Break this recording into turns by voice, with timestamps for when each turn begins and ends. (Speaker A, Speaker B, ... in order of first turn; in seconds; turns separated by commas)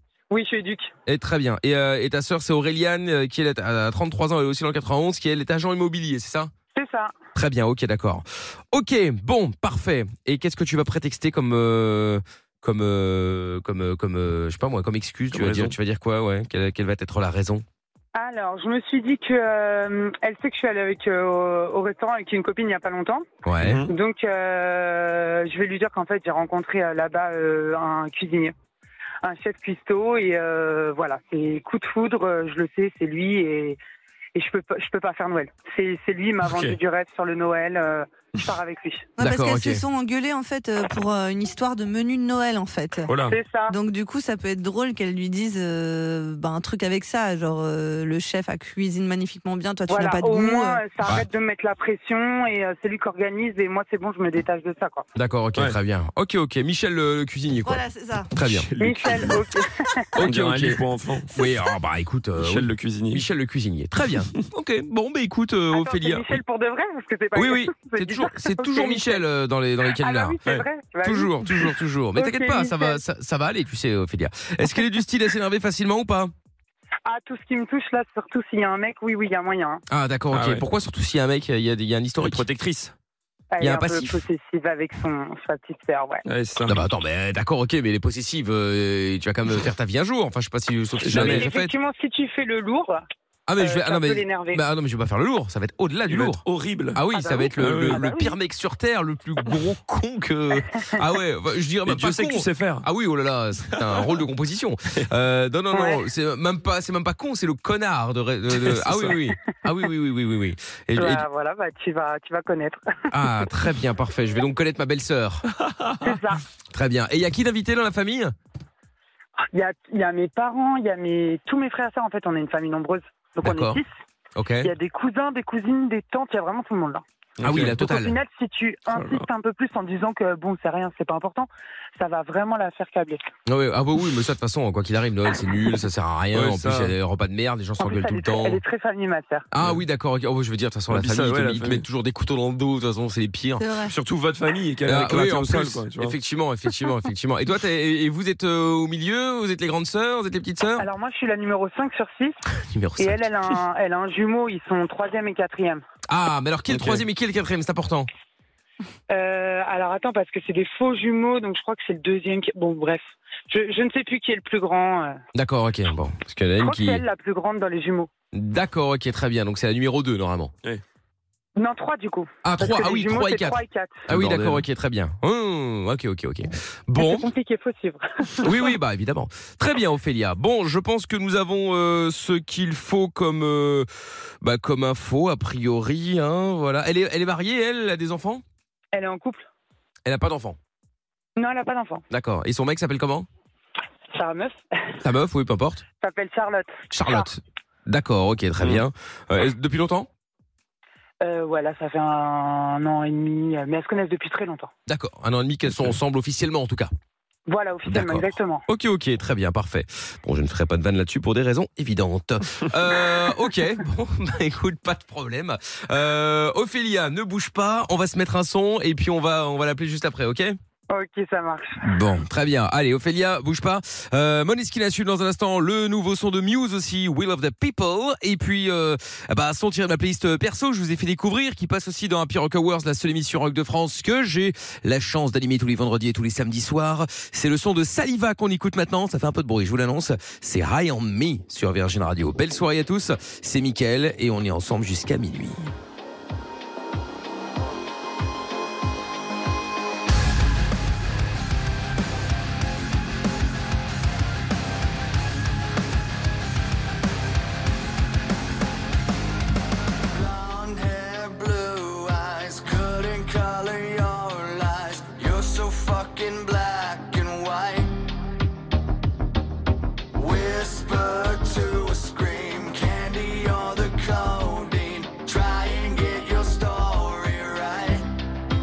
Speaker A: 0.3-0.9, Speaker B: 1.1-6.5, Speaker A: 6.7-7.1, Speaker B: 7.3-17.6, Speaker C: 15.3-15.7, Speaker A: 18.1-23.2, Speaker B: 23.4-23.9, Speaker C: 23.6-23.9, Speaker A: 23.8-28.5, Speaker A: 29.2-33.8, Speaker A: 34.3-39.1, Speaker C: 36.4-36.8, Speaker D: 39.2-43.1, Speaker B: 39.2-39.8, Speaker C: 43.1-43.3, Speaker A: 43.2-43.7, Speaker D: 43.7-50.8, Speaker A: 49.9-55.0, Speaker B: 55.1-58.7, Speaker D: 57.6-58.3, Speaker C: 58.4-59.3, Speaker A: 58.8-60.1, Speaker B: 60.1-66.4, Speaker C: 60.2-61.3, Speaker C: 62.4-63.2, Speaker A: 65.7-69.2, Speaker B: 67.3-70.4, Speaker A: 70.0-73.0, Speaker B: 71.0-76.3, Speaker A: 77.0-79.8, Speaker B: 79.9-82.5, Speaker C: 80.3-80.6, Speaker C: 82.2-82.9, Speaker A: 83.5-86.2, Speaker B: 83.6-84.2, Speaker C: 86.2-86.8, Speaker B: 86.6-91.7, Speaker C: 91.0-91.5, Speaker A: 91.1-93.0, Speaker B: 93.5-111.2, Speaker A: 93.6-94.6, Speaker C: 96.1-97.0, Speaker A: 97.1-98.3, Speaker C: 97.6-98.1, Speaker C: 101.8-102.8, Speaker A: 105.7-106.0, Speaker C: 108.6-109.2, Speaker A: 110.9-112.8, Speaker B: 113.1-115.4, Speaker C: 115.6-116.1, Speaker A: 116.0-116.4, Speaker B: 116.7-118.3, Speaker A: 119.5-123.9, Speaker B: 123.4-123.8, Speaker B: 124.3-124.7, Speaker A: 124.6-127.0, Speaker C: 127.4-127.7, Speaker B: 127.4-128.2, Speaker A: 127.6-133.2, Speaker C: 128.9-129.2, Speaker B: 133.5-138.6, Speaker C: 136.3-136.9, Speaker A: 137.8-139.5, Speaker B: 139.5-143.6, Speaker C: 140.9-141.8, Speaker D: 143.6-143.9, Speaker C: 143.9-146.2, Speaker B: 144.8-150.9, Speaker A: 150.8-152.4, Speaker B: 152.7-153.3, Speaker A: 153.0-155.8, Speaker B: 156.1-158.1, Speaker C: 156.7-157.0, Speaker A: 159.1-165.2, Speaker B: 165.3-167.0, Speaker A: 166.6-168.1, Speaker B: 168.3-170.5, Speaker A: 171.6-174.1, Speaker B: 172.4-177.3, Speaker C: 174.1-174.6, Speaker A: 177.0-178.7, Speaker B: 178.4-183.9, Speaker B: 184.4-188.4, Speaker A: 188.9-189.4, Speaker B: 190.1-190.6, Speaker A: 191.4-192.0, Speaker B: 192.1-193.3, Speaker A: 194.1-194.6, Speaker B: 195.0-195.8, Speaker A: 196.0-197.3, Speaker B: 196.9-200.1, Speaker C: 198.6-198.8, Speaker A: 201.2-204.7, Speaker B: 204.9-206.9, Speaker A: 207.5-208.6, Speaker B: 207.8-220.6, Speaker A: 220.9-221.8, Speaker B: 221.8-245.7, Speaker E: 260.1-267.9, Speaker E: 270.1-278.1